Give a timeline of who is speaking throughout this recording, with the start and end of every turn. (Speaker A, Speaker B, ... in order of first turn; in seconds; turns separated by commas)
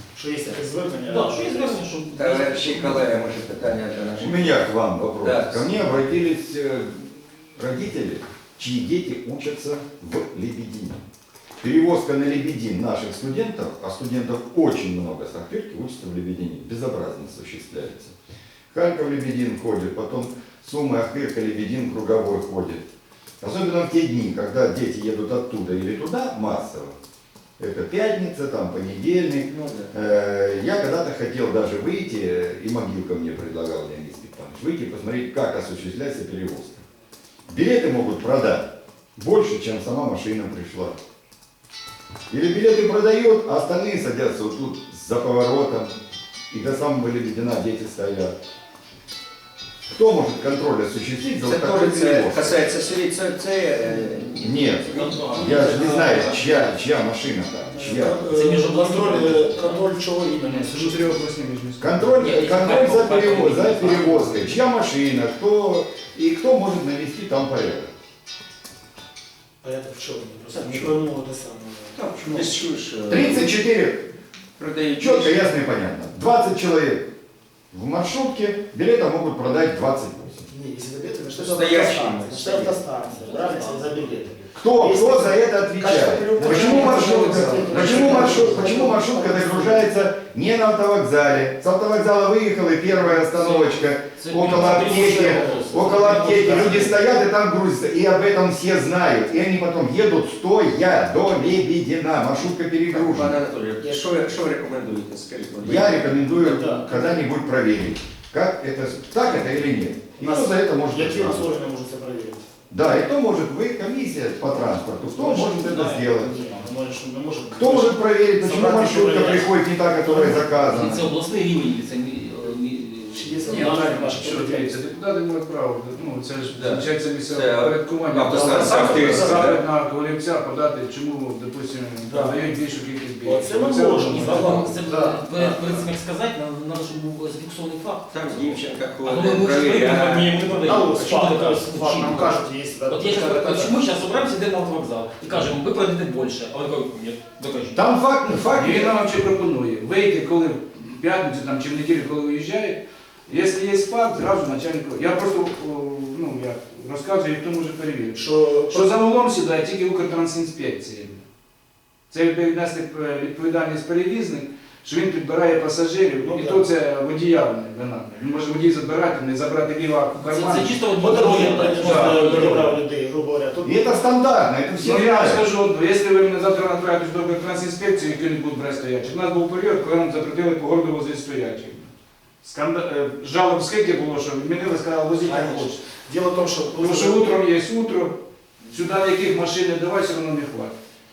Speaker A: 0.1-1.8, Speaker B: 0.4-3.1, Speaker C: 2.2-4.7, Speaker D: 4.2-11.0, Speaker C: 5.2-5.9, Speaker D: 11.6-18.1, Speaker D: 18.7-22.8, Speaker D: 23.4-26.9, Speaker D: 27.6-36.9, Speaker C: 29.4-29.9, Speaker D: 37.5-41.0, Speaker D: 42.3-45.9, Speaker D: 46.5-48.3, Speaker D: 49.9-52.7, Speaker C: 51.4-56.1, Speaker D: 54.4-58.2, Speaker B: 54.9-56.7, Speaker A: 57.7-61.2, Speaker B: 57.8-59.9, Speaker E: 60.4-62.3, Speaker D: 61.8-67.9, Speaker B: 62.2-64.6, Speaker A: 69.6-72.6, Speaker C: 70.5-71.0, Speaker C: 72.0-73.5, Speaker D: 73.1-74.1, Speaker C: 74.6-75.5, Speaker D: 75.0-77.1, Speaker D: 77.7-80.5, Speaker A: 80.5-89.9, Speaker C: 81.3-82.8, Speaker B: 83.0-84.5, Speaker D: 84.6-103.4, Speaker E: 86.4-88.6, Speaker B: 93.3-97.0, Speaker A: 94.5-96.8, Speaker C: 102.9-106.3, Speaker D: 105.6-111.5, Speaker A: 106.4-107.2, Speaker A: 110.2-112.5, Speaker D: 112.7-116.5, Speaker A: 114.7-120.6, Speaker D: 117.5-121.0, Speaker B: 120.3-124.3, Speaker A: 123.1-124.8, Speaker E: 123.5-134.8, Speaker C: 126.5-129.6, Speaker A: 128.3-129.6, Speaker A: 132.0-135.8, Speaker B: 134.0-147.9, Speaker C: 138.1-140.6, Speaker A: 140.5-143.8, Speaker D: 147.7-149.0, Speaker E: 148.5-161.2, Speaker A: 158.1-158.9, Speaker E: 162.1-172.8, Speaker A: 166.2-166.7, Speaker B: 170.2-172.7, Speaker A: 171.0-174.1, Speaker D: 173.6-175.5, Speaker E: 174.8-181.9, Speaker E: 182.4-185.8, Speaker A: 185.2-187.3, Speaker E: 186.8-188.2, Speaker E: 188.7-190.8